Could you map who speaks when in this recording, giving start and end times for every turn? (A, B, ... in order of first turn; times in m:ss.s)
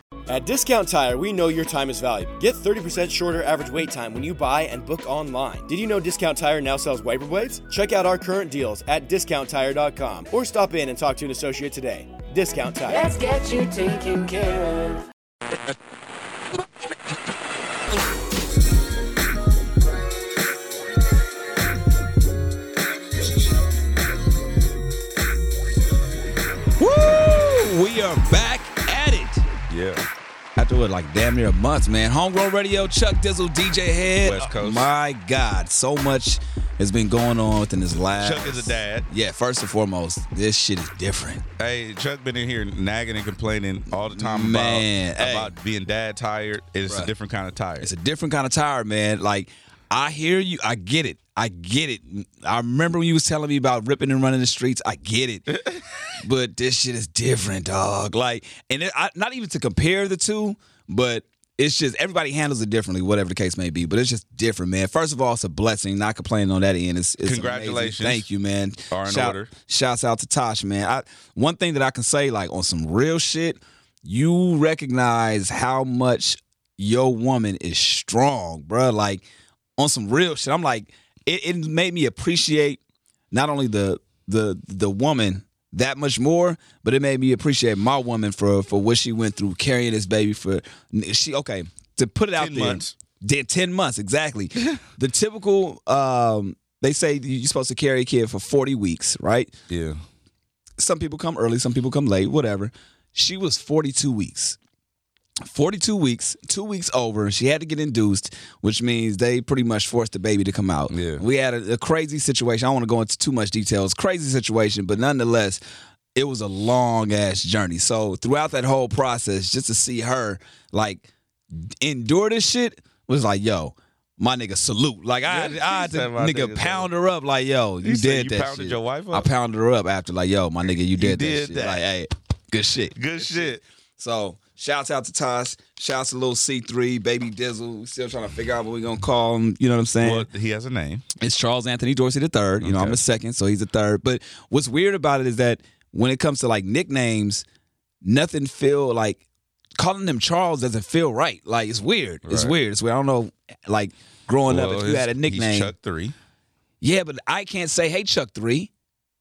0:00.3-0:13.1 A
0:12.9-0:15.0 B
0:26.8-0:29.5 C
0:29.7-0:30.1 D
0:30.6-0:41.4 C
0:34.2-0:34.9 D
0:38.1-0:39.0 D
0:41.6-0:47.9 D
0:43.9-0:45.5 C
0:47.8-0:55.5 C
0:55.5-0:56.0 D
0:56.2-1:19.2 C
1:07.2-1:08.3 D
1:08.9-1:09.5 D
1:19.8-1:22.8 C
1:23.3-1:39.5 C
1:32.4-1:32.9 D
1:39.7-1:40.0 D
1:40.8-1:44.6 C
1:45.4-1:55.6 C
1:50.9-1:51.2 D
1:56.1-2:20.3 C
2:05.2-2:06.9 D
2:07.8-2:09.3 D
2:10.6-2:11.8 D
2:12.9-2:13.6 D
2:20.0-2:21.0 D
2:21.2-2:27.4 C
2:22.6-2:23.0 D
2:28.0-2:29.2 C
2:29.8-2:35.7 C
2:32.2-2:32.6 D
2:34.4-2:36.1 D
2:36.8-2:38.7 C